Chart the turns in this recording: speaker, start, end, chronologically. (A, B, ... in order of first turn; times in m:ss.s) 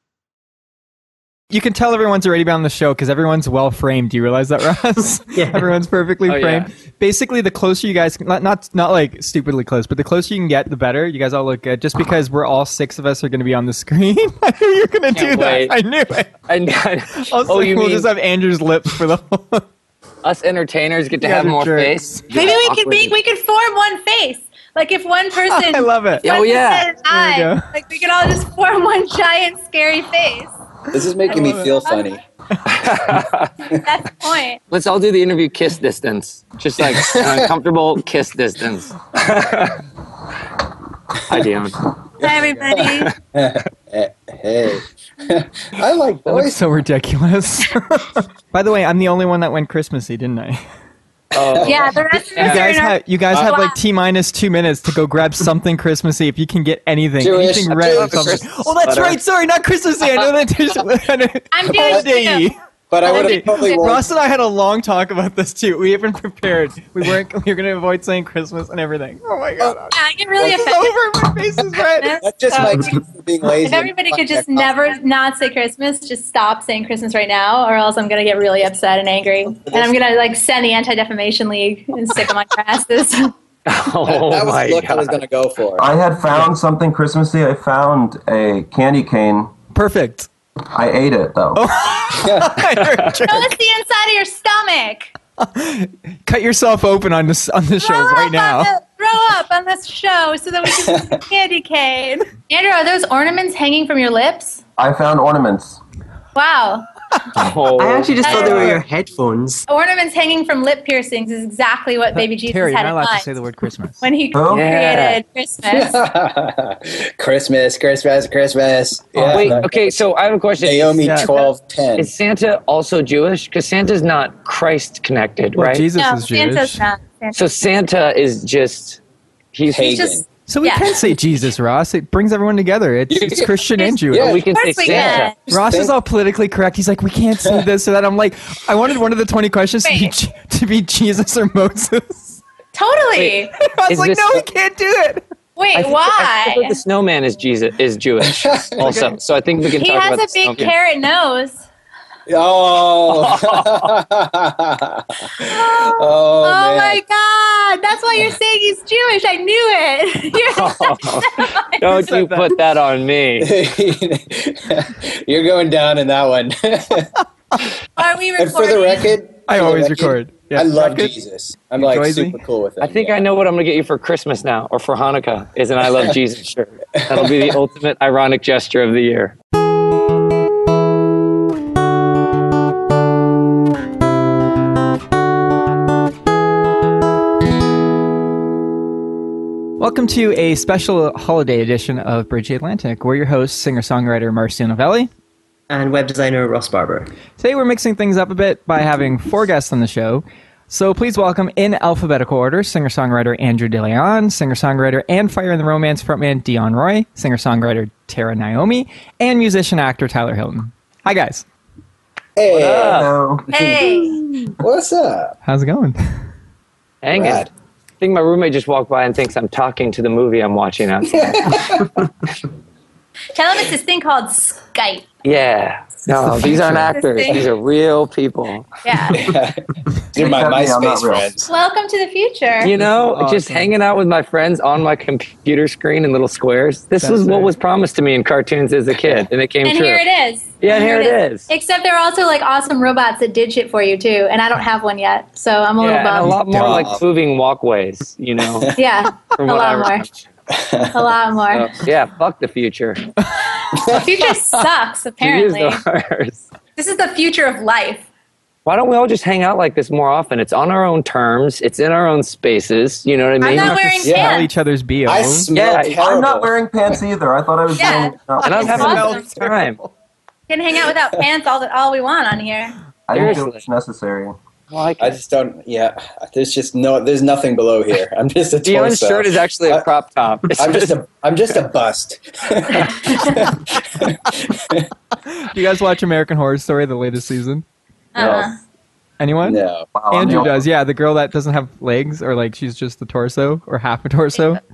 0:01.5-0:16.3 A
0:05.3-0:05.7 B
0:06.3-0:06.7 C
0:15.1-0:15.7 C
0:16.5-0:18.1 C
0:17.2-0:19.6 A
0:20.2-0:23.1 C
0:21.2-0:22.0 A
0:22.3-0:30.5 D
0:25.5-0:26.3 A
0:26.2-0:26.9 C
0:27.1-0:27.7 A
0:30.9-0:32.2 E
0:31.3-0:32.1 D
0:31.3-0:31.7 A
0:32.7-0:33.5 C
0:33.8-0:34.6 D
0:34.7-0:39.8 C
0:36.8-0:37.5 E
0:41.3-0:42.0 C
0:42.2-0:43.1 D
0:42.2-0:46.6 E
0:42.7-0:43.2 C
0:46.3-0:50.6 A
0:51.3-0:52.7 C
0:51.4-0:51.8 E
0:51.6-0:53.7 D
0:52.4-1:12.2 A
0:57.2-0:58.4 E
0:57.8-0:59.2 C
1:01.5-1:02.4 D
1:01.7-1:02.1 E
1:02.9-1:04.1 E
1:09.9-1:11.0 D
1:12.0-1:23.3 D
1:12.2-1:14.9 E
1:19.7-1:20.0 E
1:23.7-1:25.2 C
1:24.0-1:26.0 E
1:25.8-1:29.5 F
1:29.7-1:30.3 A
1:30.7-1:31.6 F
1:31.6-1:33.5 A
1:32.2-1:32.6 E
1:33.2-1:35.1 D
1:35.4-1:38.7 A
1:37.8-1:44.6 D
1:40.9-1:41.2 E
1:44.8-1:45.8 F
1:46.4-1:46.9 D
1:47.4-1:48.8 C
1:47.8-1:49.7 B
1:48.2-1:48.8 D
1:49.7-1:53.3 D
1:52.5-1:54.0 A
1:54.0-1:56.0 D
1:54.3-1:54.7 F
1:54.5-1:55.2 C
1:55.7-2:00.0 E
1:59.3-2:01.2 C
2:00.6-2:02.1 E
2:01.0-2:01.3 A
2:02.0-2:05.9 C
2:05.6-2:06.8 A
2:05.9-2:07.4 D
2:07.4-2:09.0 C
2:09.5-2:10.0 C
2:09.7-2:10.2 E
2:09.8-2:11.1 D
2:10.5-2:14.3 A
2:13.1-2:13.6 E
2:13.8-2:15.4 D
2:14.1-2:15.9 E
2:14.1-2:15.3 C
2:15.5-2:22.4 A
2:19.8-2:20.1 D
2:22.7-2:23.5 D
2:23.6-2:25.2 A
2:23.9-2:24.4 C
2:25.6-2:26.8 D
2:25.7-2:30.7 C
2:28.3-2:28.8 E
2:28.8-2:29.1 A
2:29.7-2:31.6 D
2:32.3-2:37.0 E
2:33.1-2:34.0 C
2:35.5-2:42.3 D
2:40.5-2:43.6 C
2:41.9-2:42.5 A
2:43.4-2:47.1 E
2:48.0-2:49.1 D
2:48.4-2:53.2 E
2:49.5-2:51.1 A
2:51.7-2:52.4 A
2:52.8-2:59.3 C
2:57.0-2:57.5 E
3:09.8-3:15.1 A
3:15.7-3:17.1 B
3:17.4-3:31.4 A
3:32.4-3:34.0 E
3:32.5-3:33.1 C
3:32.9-3:33.5 F
3:33.5-3:34.2 D
3:34.6-3:35.4 E
3:35.4-3:36.1 A
3:37.0-3:37.5 C
3:37.1-3:37.5 E
3:38.0-3:41.9 C
3:41.1-3:42.0 E
3:43.4-3:45.1 D
3:45.2-3:48.7 C
3:46.9-3:47.4 D
3:48.8-3:49.3 D
3:49.1-3:51.5 E
3:50.1-3:51.4 F
3:51.5-3:52.8 D
3:52.6-4:00.0 C
3:52.8-3:53.7 A
3:57.0-3:57.5 A
3:59.6-4:06.4 D
4:00.6-4:01.5 C
4:05.8-4:08.7 C
4:06.4-4:06.8 A
4:06.5-4:07.0 E
4:08.8-4:10.1 D
4:09.2-4:10.1 C
4:10.5-4:11.1 E
4:10.9-4:11.8 D
4:11.5-4:13.1 C
4:13.9-4:15.8 D
4:15.2-4:16.4 C
4:16.8-4:18.1 D
4:18.6-4:23.8 C
4:23.4-4:24.5 D
4:23.5-4:25.5 A
4:24.0-4:24.3 E
4:25.0-4:26.6 E
4:25.5-4:26.0 C
4:26.0-4:29.2 F
4:27.8-4:29.3 D
4:28.4-4:29.8 C
4:28.6-4:29.9 A
4:30.5-4:32.8 D
4:33.1-4:34.4 F
4:33.1-4:33.6 C
4:34.7-4:35.2 C
4:35.0-4:39.9 E
4:38.6-4:41.0 C
4:40.6-4:44.9 E
4:45.3-4:47.6 A
4:48.1-4:48.6 D
4:48.2-4:48.4 E
4:49.2-4:54.6 A
4:49.4-4:49.9 E
4:49.9-4:50.6 F